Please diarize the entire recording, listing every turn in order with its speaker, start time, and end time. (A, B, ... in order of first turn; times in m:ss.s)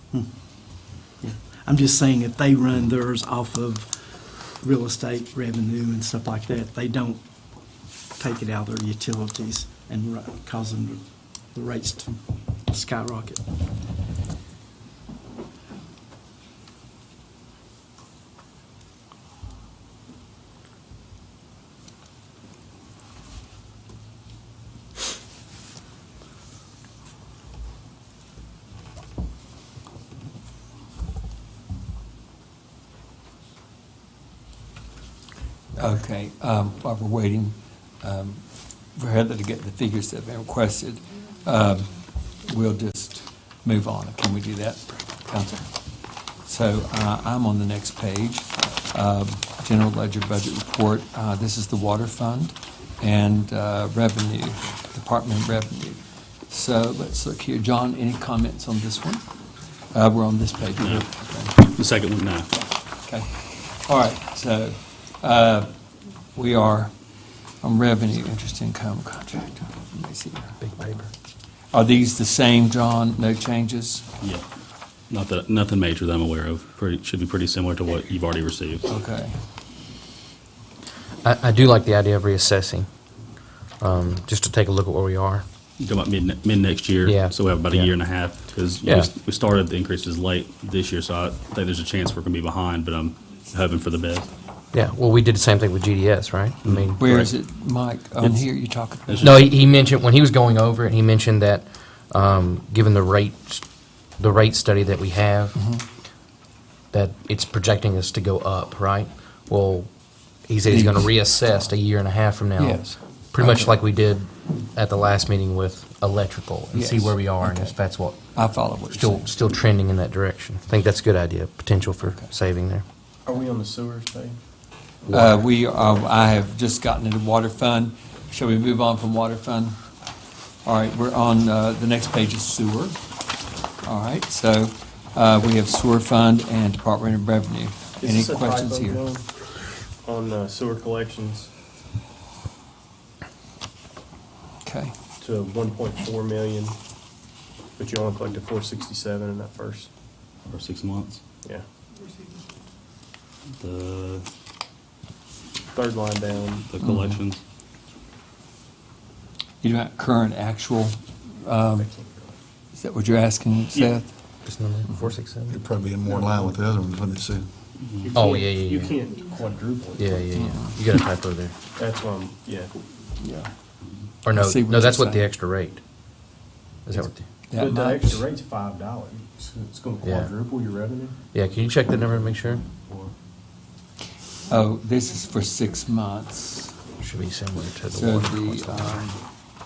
0:00.1-0:13.4 A
0:35.8-0:45.8 B
0:46.4-0:59.2 B
0:59.9-1:01.6 B
1:00.8-1:02.5 C
1:03.0-1:05.7 B
1:06.3-1:06.9 B
1:07.6-1:10.9 B
1:10.6-1:11.1 D
1:11.7-1:14.0 B
1:15.1-1:18.9 C
1:18.9-1:19.4 B
1:21.2-1:22.9 D
1:23.8-1:25.4 D
1:25.8-1:34.3 C
1:27.0-1:28.0 D
1:28.8-1:29.1 D
1:34.7-1:37.3 D
1:36.6-1:37.3 C
1:37.0-1:39.5 B
1:39.1-1:39.4 C
1:39.2-1:43.6 D
1:44.2-1:45.6 D
1:45.6-1:45.8 B
1:46.9-1:49.9 D
1:50.5-2:02.8 D
1:50.7-1:51.2 B
1:52.6-1:53.7 B
1:56.7-1:57.8 B
1:58.3-1:59.3 B
2:03.3-2:04.4 E
2:05.0-2:05.5 D
2:05.1-2:09.8 B
2:10.6-2:13.0 B
2:13.8-2:19.0 B
2:18.0-2:19.2 E
2:20.0-2:21.5 E
2:24.6-2:24.9 B
2:25.2-2:26.8 E
2:27.8-2:29.9 E
2:30.5-2:31.2 C
2:33.6-2:34.3 C
2:35.7-2:36.7 E
2:36.6-2:37.4 C
2:36.8-2:37.2 B
2:39.6-2:41.9 B
2:41.7-2:42.4 E
2:42.7-2:44.1 B
2:44.4-2:45.6 D
2:45.5-2:47.5 F
2:46.0-2:46.6 E
2:48.0-2:50.3 E
2:48.1-2:49.0 D
2:50.0-2:51.5 D
2:50.4-2:50.8 B
2:51.8-2:52.7 E
2:53.2-2:53.5 B
2:54.2-2:55.8 D
2:54.3-2:55.3 B
2:56.9-2:57.3 D
2:56.9-3:03.1 E
2:57.5-2:58.3 B
3:00.0-3:00.4 D
3:01.3-3:02.6 D
3:04.5-3:06.7 B
3:07.0-3:09.1 D
3:07.9-3:09.2 B